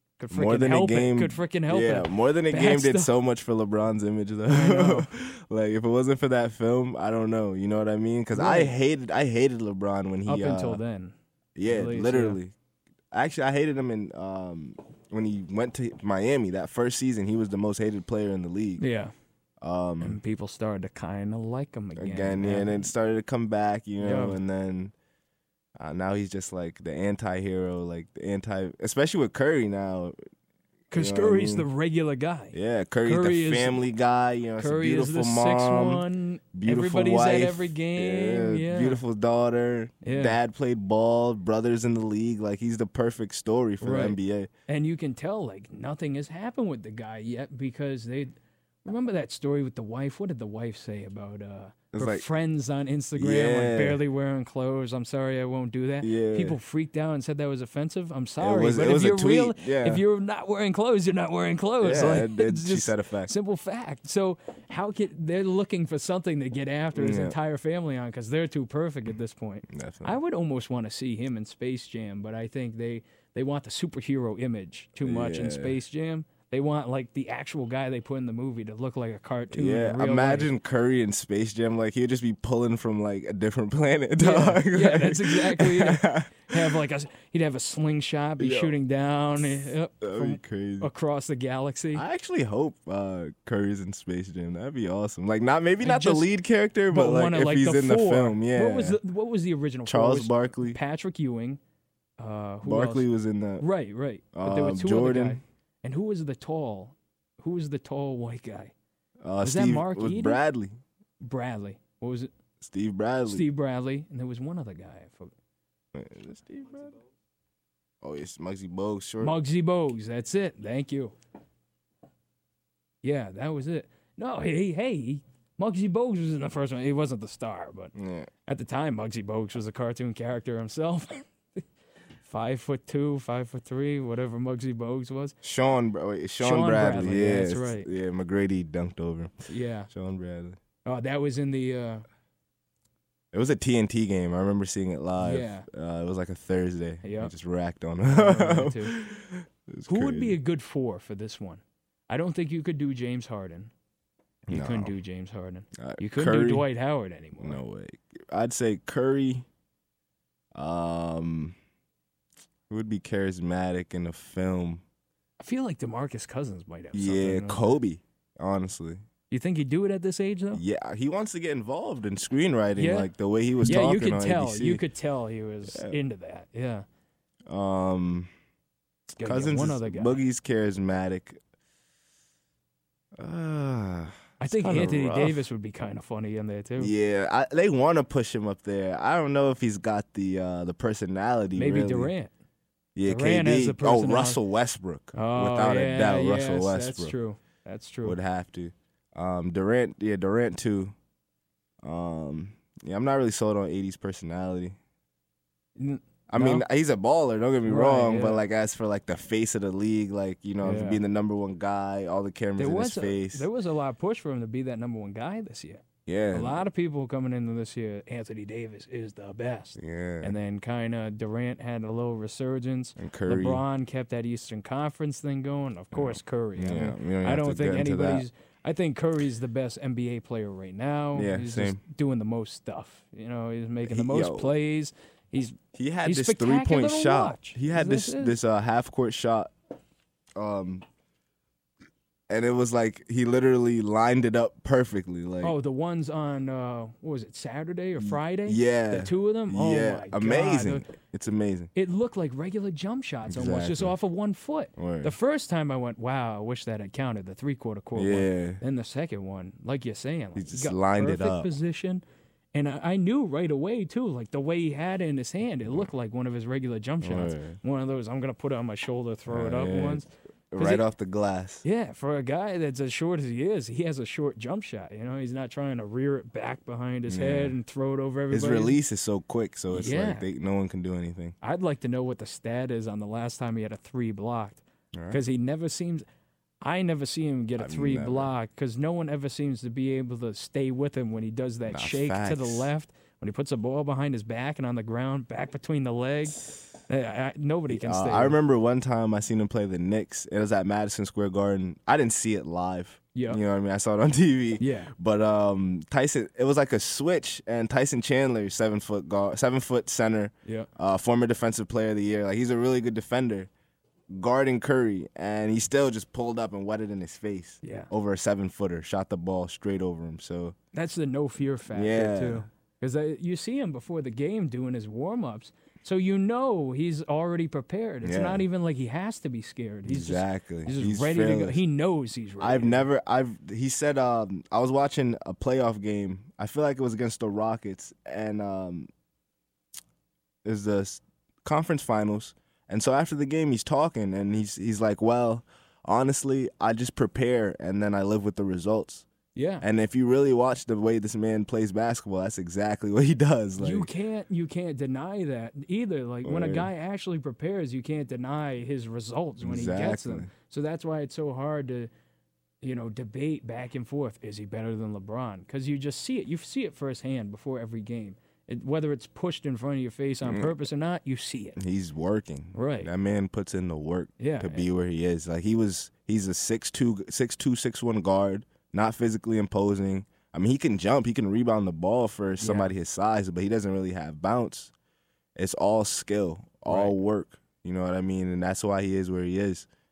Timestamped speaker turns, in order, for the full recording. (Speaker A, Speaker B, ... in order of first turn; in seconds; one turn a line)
Speaker A: 0.2-3.1
Speaker B: 0.3-10.8
Speaker A: 4.5-5.1
Speaker A: 8.3-8.7
Speaker A: 10.3-11.2
Speaker B: 11.6-12.5
Speaker A: 11.7-12.4
Speaker B: 13.1-18.8
Speaker A: 18.8-19.1
Speaker B: 19.6-20.2
Speaker A: 20.0-22.9
Speaker B: 22.0-24.9
Speaker A: 24.0-24.4
Speaker B: 25.8-30.2
Speaker A: 30.9-33.8
Speaker B: 30.9-31.7
Speaker B: 32.5-44.5
Speaker A: 34.6-39.0
Speaker A: 40.0-40.4
Speaker A: 43.8-48.3
Speaker A: 48.9-80.5
Speaker B: 51.9-52.2
Speaker B: 53.2-54.0
Speaker B: 56.0-56.6
Speaker B: 58.4-60.0
Speaker B: 61.8-63.3
Speaker B: 67.0-67.4
Speaker B: 69.7-70.2
Speaker B: 75.0-75.8
Speaker B: 79.5-86.8
Speaker A: 84.2-92.0
Speaker B: 88.4-88.8
Speaker B: 89.4-90.9
Speaker B: 91.9-99.0
Speaker A: 95.8-96.3
Speaker A: 96.9-101.6
Speaker B: 99.9-100.8
Speaker A: 102.2-103.1
Speaker B: 102.6-103.7
Speaker A: 103.6-108.7
Speaker B: 104.3-105.4
Speaker B: 109.2-110.8
Speaker A: 109.4-110.4
Speaker A: 111.2-112.3
Speaker B: 112.6-113.5
Speaker A: 113.3-115.3
Speaker B: 115.9-117.0
Speaker B: 118.0-119.4
Speaker A: 119.2-121.1
Speaker A: 123.0-127.9
Speaker B: 128.0-128.3
Speaker A: 128.5-131.6
Speaker A: 132.2-135.4
Speaker B: 135.4-139.3
Speaker A: 136.4-137.9
Speaker A: 139.5-139.9
Speaker B: 139.9-140.6
Speaker A: 140.8-142.1
Speaker B: 143.3-150.4
Speaker A: 145.2-145.7
Speaker A: 147.0-147.3
Speaker A: 148.1-148.9
Speaker A: 149.9-153.7
Speaker B: 154.5-154.9
Speaker A: 154.5-157.6
Speaker B: 155.8-156.7
Speaker B: 157.4-159.5
Speaker B: 160.5-161.6
Speaker B: 162.7-164.8
Speaker A: 165.4-167.7
Speaker B: 166.9-169.0
Speaker A: 169.3-170.6
Speaker B: 170.5-174.8
Speaker A: 172.8-173.1
Speaker A: 173.6-176.8
Speaker B: 175.7-176.0
Speaker B: 177.5-178.3
Speaker A: 179.2-180.2
Speaker B: 179.2-181.4
Speaker B: 183.2-185.5
Speaker A: 184.4-186.9
Speaker B: 186.8-192.1
Speaker A: 191.6-192.3
Speaker B: 193.0-197.1
Speaker A: 193.1-194.4
Speaker A: 195.1-198.2
Speaker B: 198.0-200.9
Speaker B: 201.8-204.8
Speaker A: 205.8-206.6
Speaker B: 206.3-213.5
Speaker A: 207.7-208.4
Speaker A: 210.6-211.0
Speaker A: 212.6-238.4
Speaker B: 216.1-216.6
Speaker B: 219.8-220.3
Speaker B: 223.0-223.6
Speaker B: 225.9-228.3
Speaker B: 231.1-231.8
Speaker B: 233.9-234.5
Speaker B: 235.7-239.5
Speaker B: 240.4-240.8
Speaker B: 242.3-245.6
Speaker A: 245.4-250.9
Speaker B: 248.0-251.7
Speaker A: 251.8-262.0
Speaker B: 253.3-253.9
Speaker B: 254.8-255.2
Speaker B: 257.9-258.6
Speaker B: 260.4-261.5
Speaker A: 262.5-270.1
Speaker B: 265.6-265.9
Speaker B: 267.0-267.6
Speaker B: 269.3-271.6
Speaker A: 270.6-270.9
Speaker A: 271.6-278.8
Speaker B: 277.1-277.6
Speaker B: 278.3-281.4
Speaker A: 279.7-280.3
Speaker A: 281.4-286.1
Speaker B: 284.9-285.2
Speaker A: 286.6-298.4
Speaker B: 287.6-288.3
Speaker B: 291.7-292.7
Speaker B: 297.7-313.5
Speaker A: 303.1-303.4
Speaker A: 304.6-304.9
Speaker B: 314.1-320.6
Speaker A: 317.6-317.9
Speaker A: 320.7-332.8
Speaker B: 321.7-322.5
Speaker B: 328.0-328.4
Speaker B: 329.9-331.6
Speaker B: 332.4-338.9
Speaker B: 340.4-349.1
Speaker A: 349.4-349.6
Speaker B: 349.6-353.9
Speaker A: 353.6-361.9
Speaker B: 356.2-356.7
Speaker B: 359.4-360.3
Speaker A: 362.6-371.6
Speaker B: 370.2-370.6
Speaker B: 371.6-384.7
Speaker A: 372.5-372.9
Speaker A: 374.2-374.6
Speaker A: 382.4-382.7
Speaker B: 385.4-389.7
Speaker A: 386.7-386.9